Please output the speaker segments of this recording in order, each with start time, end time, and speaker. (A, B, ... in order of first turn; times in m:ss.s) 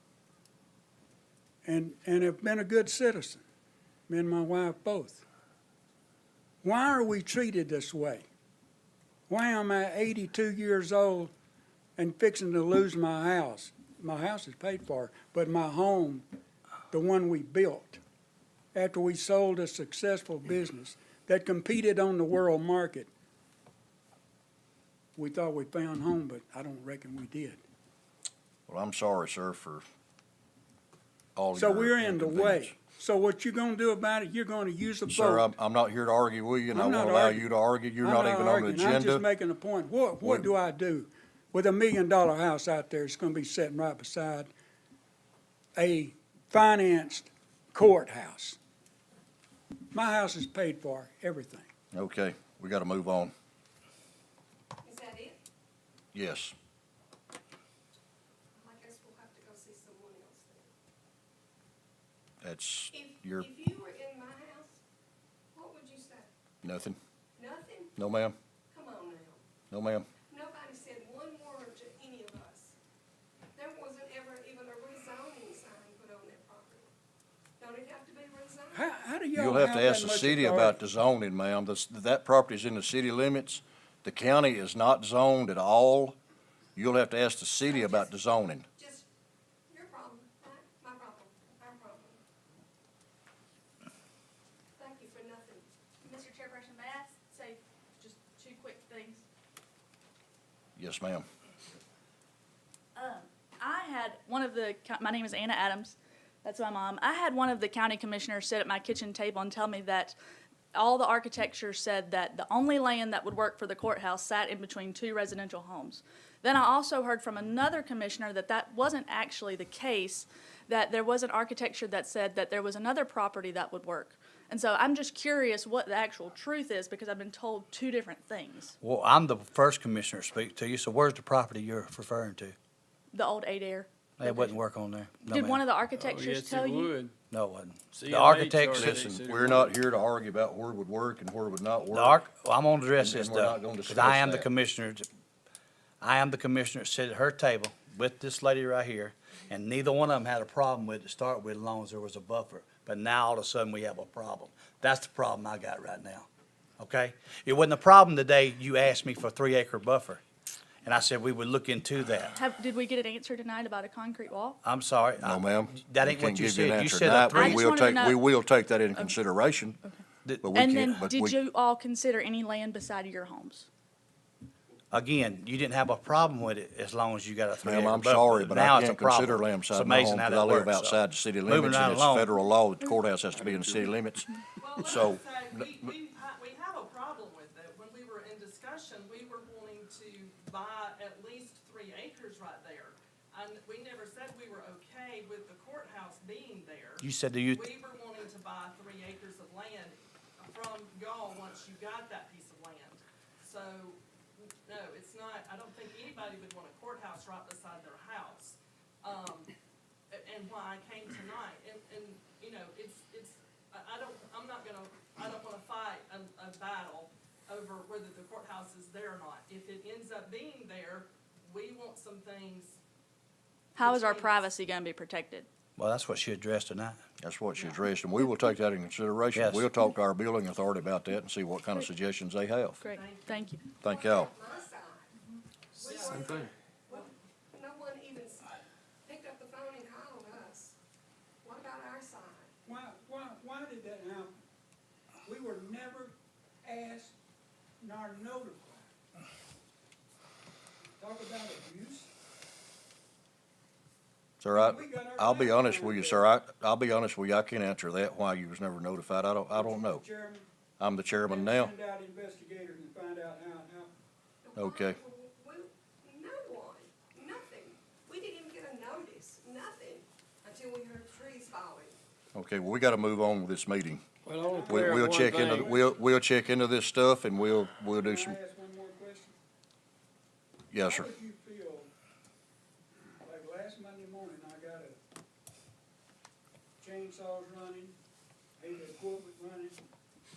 0:01.6-0:03.4 A
0:04.1-0:05.2 A
0:06.6-0:08.2 A
0:09.3-0:11.3 A
0:12.0-0:16.3 A
0:16.9-0:18.0 A
0:18.7-0:23.1 A
0:25.2-0:27.6 A
0:28.7-0:29.8 B
0:31.4-0:32.7 B
0:31.6-0:35.5 A
0:35.1-0:39.2 B
0:36.7-0:37.5 A
0:38.0-0:44.5 A
0:40.2-0:40.5 B
0:45.8-0:48.6 A
0:49.9-0:51.7 A
0:51.9-0:53.3 B
0:54.8-0:55.4 C
0:56.1-0:56.6 B
0:58.6-1:00.7 C
1:02.4-1:03.5 B
1:02.9-1:04.8 C
1:05.5-1:06.3 C
1:06.6-1:07.0 B
1:07.4-1:07.9 C
1:08.0-1:08.4 B
1:08.7-1:09.4 C
1:09.7-1:10.1 B
1:10.3-1:12.8 C
1:13.6-1:16.9 C
1:17.6-1:18.9 C
1:18.7-1:20.8 A
1:19.4-1:26.2 B
1:26.8-1:28.7 B
1:27.6-1:28.1 C
1:28.8-1:29.1 C
1:29.7-1:32.2 C
1:34.8-1:35.7 C
1:36.0-1:39.2 D
1:40.8-1:41.3 B
1:43.0-1:50.2 D
1:50.8-2:08.8 D
2:08.8-2:12.6 E
2:13.1-2:14.6 D
2:14.2-2:15.6 E
2:15.3-2:17.0 D
2:15.9-2:17.1 F
2:17.3-2:19.1 E
2:17.9-2:19.8 F
2:18.8-2:22.3 B
2:21.9-2:25.1 E
2:23.0-2:24.5 B
2:26.0-2:36.3 E
2:36.8-2:40.2 E
2:40.8-2:42.4 E
2:42.4-2:44.6 D
2:44.6-2:47.7 E
2:45.2-2:49.8 B
2:47.3-2:48.3 D
2:50.2-2:50.6 E
2:50.4-2:51.4 B
2:50.6-2:53.7 D
2:54.9-3:02.3 E
2:57.6-3:05.7 B
3:03.4-3:03.8 F
3:04.6-3:29.5 G
3:17.0-3:17.7 E
3:30.1-3:42.8 G
3:43.8-3:44.4 G
3:43.8-3:45.5 D
3:45.8-3:47.0 E
3:47.2-3:52.8 B
3:49.4-3:49.7 E
3:52.8-3:53.7 D
3:53.0-3:53.3 C
3:53.8-3:54.3 B
3:53.8-3:55.1 C
3:55.7-3:58.5 C
3:55.8-3:56.2 G
3:56.1-3:56.5 F
3:59.0-4:00.8 C
4:01.4-4:02.5 C
4:02.6-4:04.4 A
4:05.3-4:07.2 A
4:07.8-4:08.9 A
4:11.0-4:12.1 A
4:14.4-4:20.0 B
4:14.5-4:16.3 A
4:19.5-4:20.5 A
4:20.8-4:21.7 B
4:21.2-4:24.0 A
4:24.4-4:32.0 C
4:24.6-4:25.0 B
4:32.3-4:34.0 B
4:34.2-4:35.8 F
4:34.4-4:35.8 A
4:34.7-4:38.4 B
4:38.0-4:39.4 A
4:40.7-4:41.1 B
4:40.8-4:41.9 A
4:43.2-4:45.0 A
4:46.8-4:48.0 A
4:48.6-4:49.8 A